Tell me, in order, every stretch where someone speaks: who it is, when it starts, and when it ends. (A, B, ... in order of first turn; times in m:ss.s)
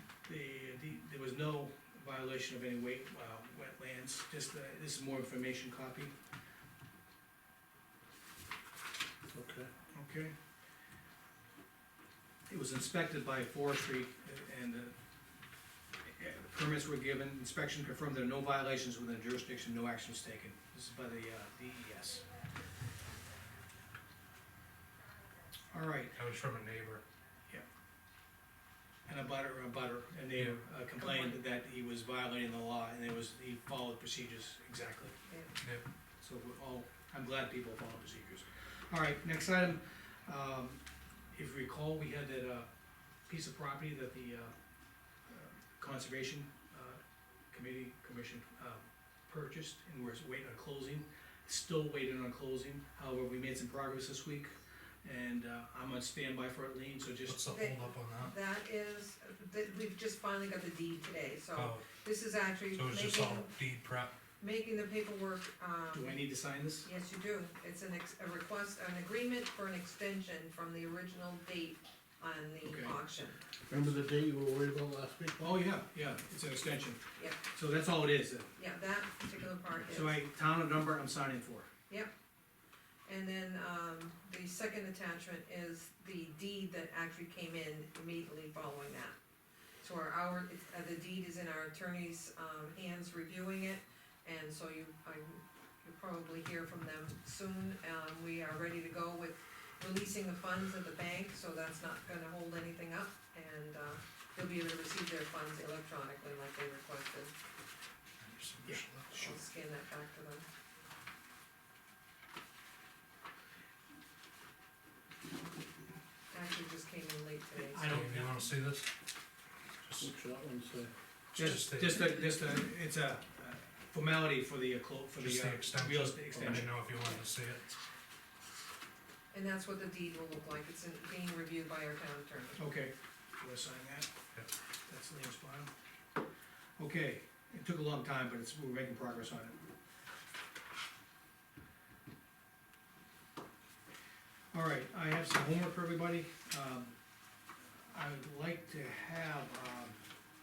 0:00.2-0:06.2 A
0:09.3-0:09.7 B
0:09.9-0:10.3 A
0:12.5-0:15.0 A
0:16.1-0:22.3 A
0:25.7-0:26.2 A
0:26.1-0:27.0 C
0:29.1-0:35.2 A
0:31.0-0:31.4 D
0:35.3-0:35.6 D
0:35.6-0:35.8 C
0:36.2-0:40.8 A
0:41.3-0:42.7 A
0:43.3-0:44.5 A
0:45.3-0:47.0 A
0:47.5-0:57.4 A
0:57.3-0:58.3 C
0:57.5-1:03.5 D
1:01.5-1:02.0 C
1:02.7-1:04.1 C
1:04.4-1:06.2 D
1:05.9-1:06.9 A
1:06.8-1:13.4 D
1:12.6-1:13.0 A
1:13.7-1:15.6 B
1:15.4-1:18.5 A
1:18.6-1:20.2 D
1:19.9-1:21.7 A
1:23.1-1:29.2 D
1:29.8-1:47.3 D
1:48.2-1:49.2 C
1:48.6-1:49.3 A
1:49.1-1:50.4 D
1:56.3-1:57.8 D
1:57.6-1:58.5 A
1:57.8-1:58.9 C
1:59.8-2:00.1 C
2:00.0-2:00.9 B
2:01.4-2:02.0 C
2:01.4-2:06.8 A
2:05.2-2:07.8 C
2:06.4-2:06.6 B
2:09.3-2:12.6 D
2:12.6-2:14.1 A
2:14.9-2:15.7 A
2:16.8-2:19.6 A
2:24.5-2:26.9 A
2:27.9-2:30.0 A